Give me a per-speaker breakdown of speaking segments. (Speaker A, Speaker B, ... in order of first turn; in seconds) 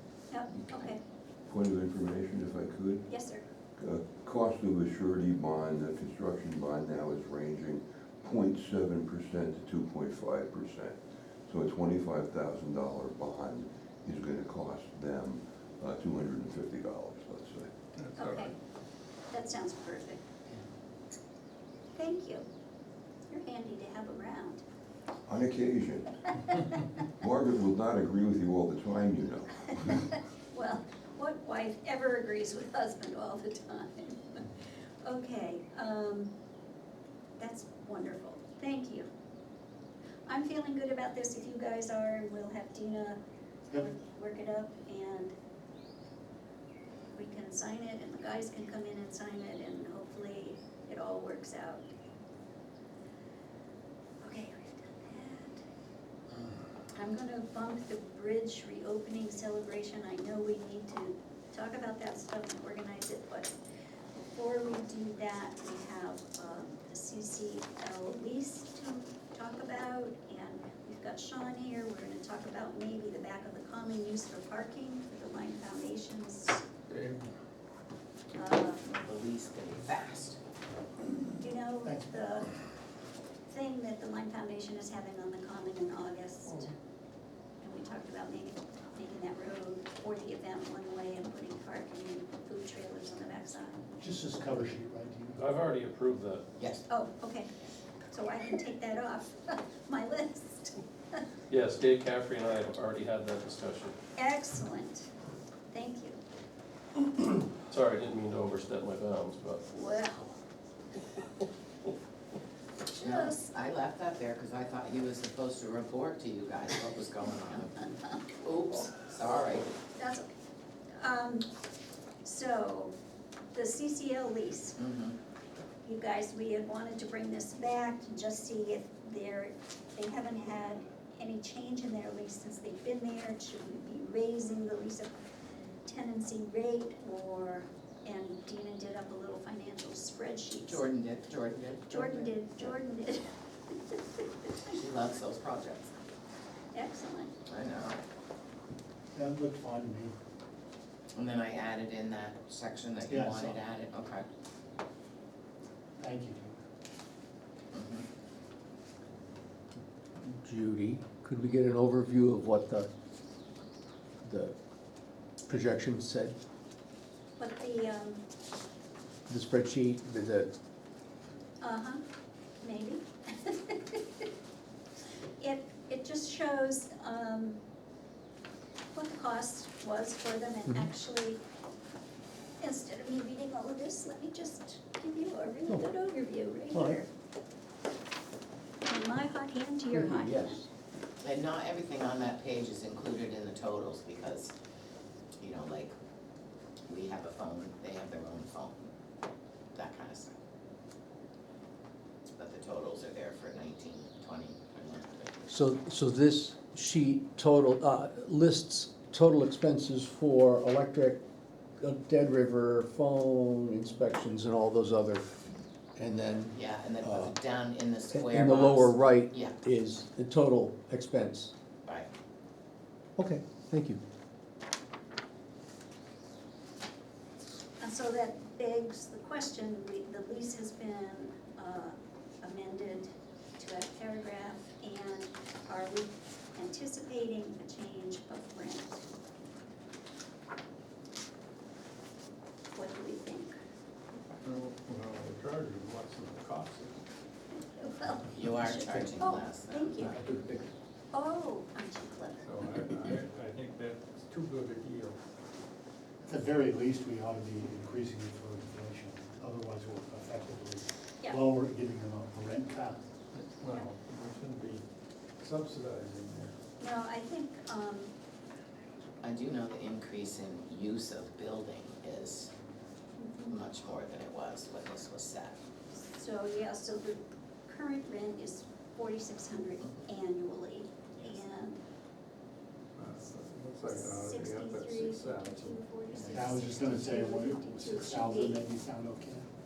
Speaker A: 0.3-1.0, 3.1-3.4, 18.1-18.5, 19.3-20.2, 21.9-22.4, 23.3-24.6, 26.4-26.8, 29.8-34.5, 35.0-36.3, 37.4-39.1, 40.2-45.3, 47.1-51.9, 54.2-55.6, 56.9-63.5, 64.3-76.6, 78.3-78.9, 81.4-82.5, 83.5-86.7, 87.6-93.9, 96.9-97.5, 98.1-101.2, 104.2-105.1, 105.7-106.2, 109.7-110.3, 112.9-113.5, 120.0-120.3, 121.0-121.5, 122.2-122.9, 123.5-124.8, 125.8-135.1, 135.8-140.9, 141.9-144.8, 146.7-147.3, 167.4-168.2, 171.6-172.0, 172.6-174.0, 175.4-177.6, 178.9-181.4, 182.6-187.1, 188.8-190.6, 227.8-239.0, 242.7-243.5, 247.6-250.2, 251.1-252.4, 266.8-268.1, 273.2-273.6, 276.1-281.8, 283.8-288.7
Speaker B: 1.5-3.0, 3.8-11.0, 11.5-17.7, 25.2-26.3, 27.2-29.9
Speaker C: 18.0-18.5, 76.9-77.3, 244.4-247.0, 252.4-255.2, 263.3-264.8, 265.4-266.5, 282.9-285.8
Speaker D: 78.9-80.4, 112.9-119.7, 124.8-125.2, 140.6-142.7, 144.7-145.9, 147.5-148.0, 151.1-154.2, 157.7-158.0, 191.2-194.5, 195.4-195.9, 196.9-198.9, 199.7-200.3, 202.2-205.5, 216.5-219.5, 248.3-250.2, 269.2-272.5, 273.5-275.6
Speaker E: 81.8-82.1, 94.0-95.4, 149.1-150.1, 153.1-153.6, 156.0-156.6, 256.2-263.0, 286.2-289.5
Speaker F: 95.4-96.4, 101.5-104.0, 107.7-109.6
Speaker G: 160.3-162.9, 164.2-164.5, 165.4-166.3, 169.3-170.5, 186.7-187.0, 189.9-190.7, 205.5-211.2, 211.8-217.3, 218.1-221.5, 223.2-224.0, 250.2-250.7